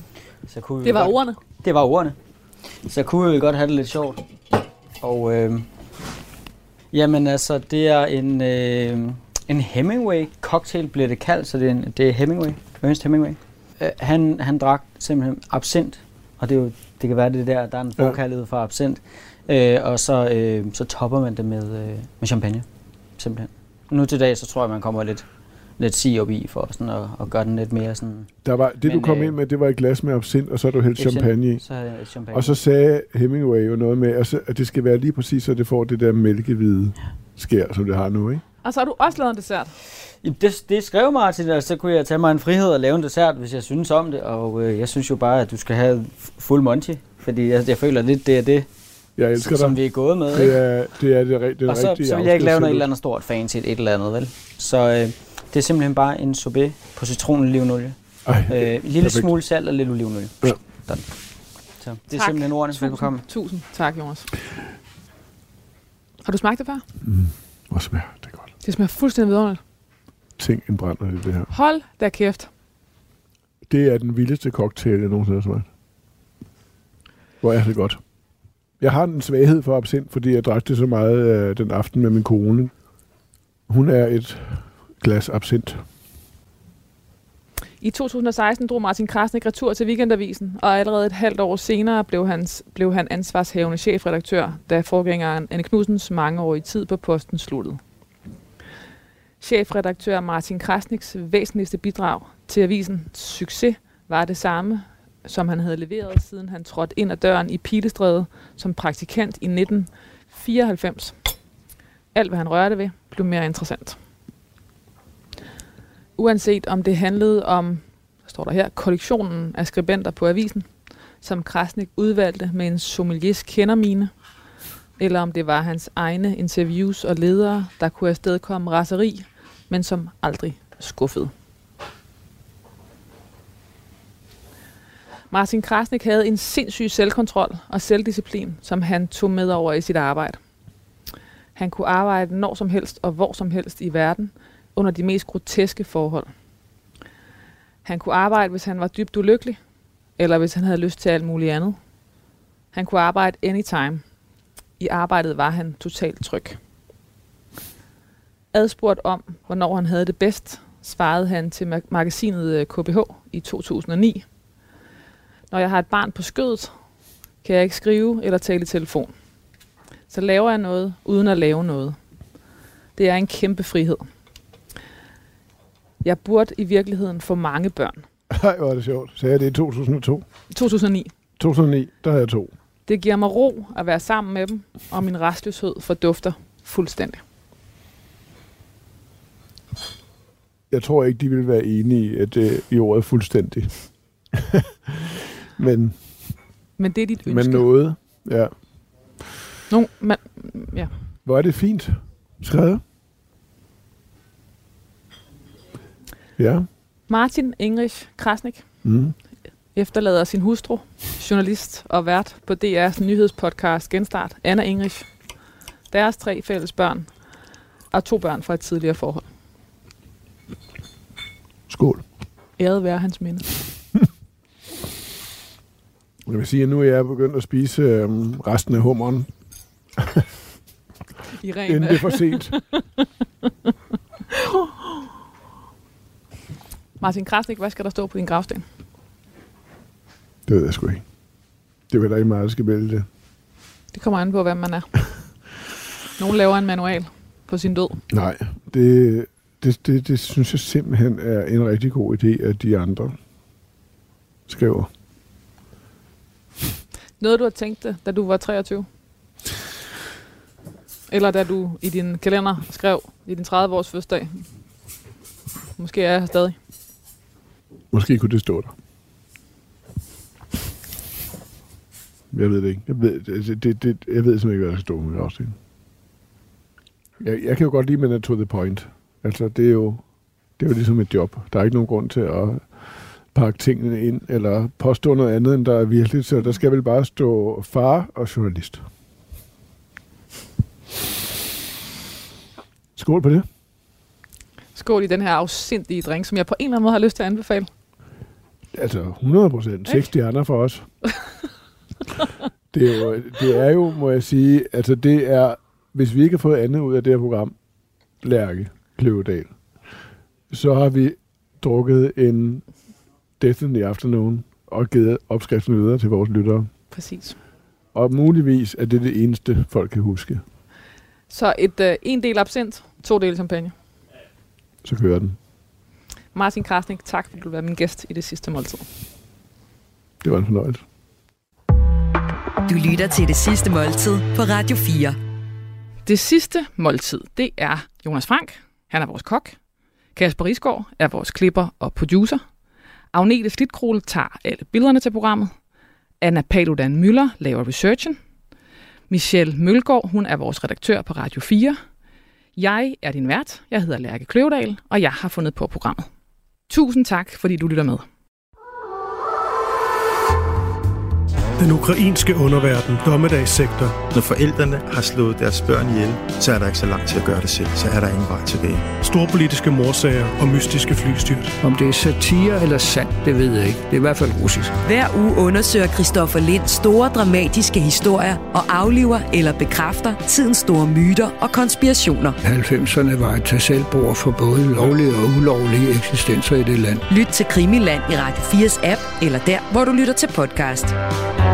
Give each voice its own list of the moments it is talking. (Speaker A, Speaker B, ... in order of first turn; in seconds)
Speaker A: 0.5-2.2, 2.9-4.2, 5.0-5.7, 6.9-22.7, 23.2-25.3, 25.8-29.4, 31.0-32.6, 40.2-48.7, 49.4-50.6, 51.7-61.1, 61.8-63.2
Speaker B: 0.8-1.4, 38.6-39.7, 62.1-64.3, 66.2-66.8, 68.6-69.6, 71.5-72.5, 87.8-97.8, 99.4-111.2, 112.1-114.0, 116.2-120.7, 121.2-124.1, 125.0-131.3, 135.3-140.4, 141.6-146.3, 147.8-149.6, 150.2-151.8, 152.7-154.0, 154.8-156.6, 158.5-164.2, 165.5-166.7, 167.4-169.1, 170.1-172.0, 173.0-174.1, 176.0-178.1, 180.5-181.1, 182.9-187.2, 196.8-197.7, 199.7-200.9, 207.1-208.7, 209.8-215.1, 215.9-217.1, 217.9-219.2, 222.6-223.5, 231.4-233.1, 237.0-238.7, 243.9-245.0, 246.2-248.0, 257.2-258.9, 261.1-264.4, 265.8-266.6, 294.8-297.7, 316.9-317.4, 321.3-323.7, 326.3-328.9, 336.1-339.6, 340.1-342.4, 343.1-345.5, 346.2-348.2, 349.1-351.8, 352.6-356.1, 356.7-358.1
Speaker C: 28.4-31.6, 32.3-38.4, 49.2-49.8, 50.3-52.9, 58.3-59.3, 67.0-68.5, 70.4-71.5, 73.7-75.7, 77.4-78.0, 78.8-82.7, 83.7-85.8, 178.3-180.2, 181.4-182.5, 190.7-196.1, 197.3-198.5, 201.2-202.8, 206.4-206.7, 208.8-209.2, 221.7-222.1, 226.3-229.3, 230.0-230.2, 231.7-232.6, 240.5-241.1, 241.9-243.1, 248.1-253.2, 254.5-254.9, 267.9-268.7, 272.3-275.6, 277.2-280.0, 280.6-282.7, 283.3-288.9, 293.0-293.5, 298.7-300.9, 302.7-307.5, 308.2-309.6, 310.5-312.6, 313.4-316.7, 317.9-320.4, 324.8-325.4, 330.2-330.8
Speaker D: 332.7-335.2, 374.8-382.4, 387.1-390.9
Speaker E: 361.6-364.0, 369.0-371.5
Speaker F: 364.1-369.0
Speaker G: 371.6-374.7, 382.4-387.0